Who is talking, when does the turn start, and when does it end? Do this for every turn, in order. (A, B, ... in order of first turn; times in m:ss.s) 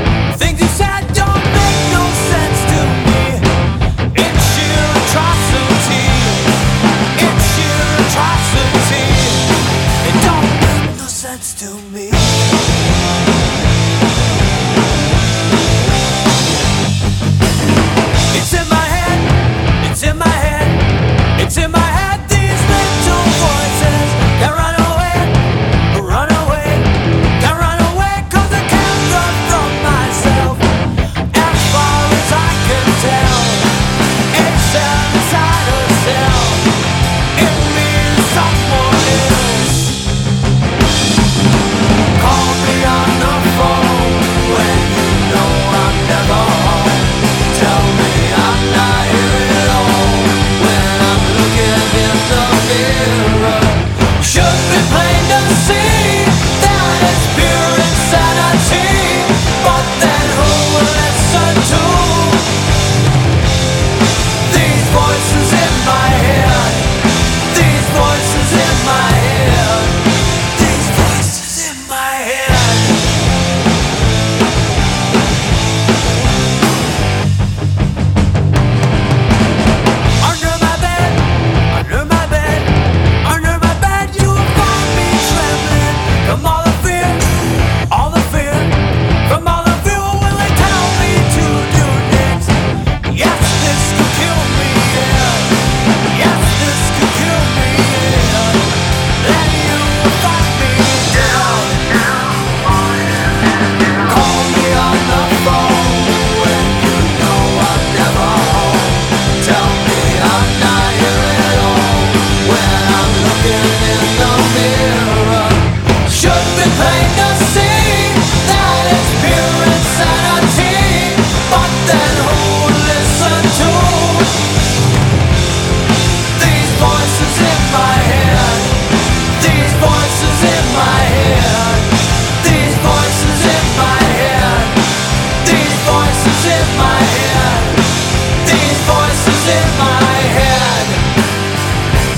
0:00.3-0:03.4 A
0:04.1-0:06.6 A
0:07.2-0:12.6 A
0:18.3-0:30.7 A
0:31.3-0:33.8 A
0:34.3-0:36.7 A
0:37.4-0:40.0 A
0:42.2-1:02.6 A
1:04.4-1:13.2 A
1:20.2-1:27.3 A
1:27.9-2:04.5 A
2:06.3-2:21.2 A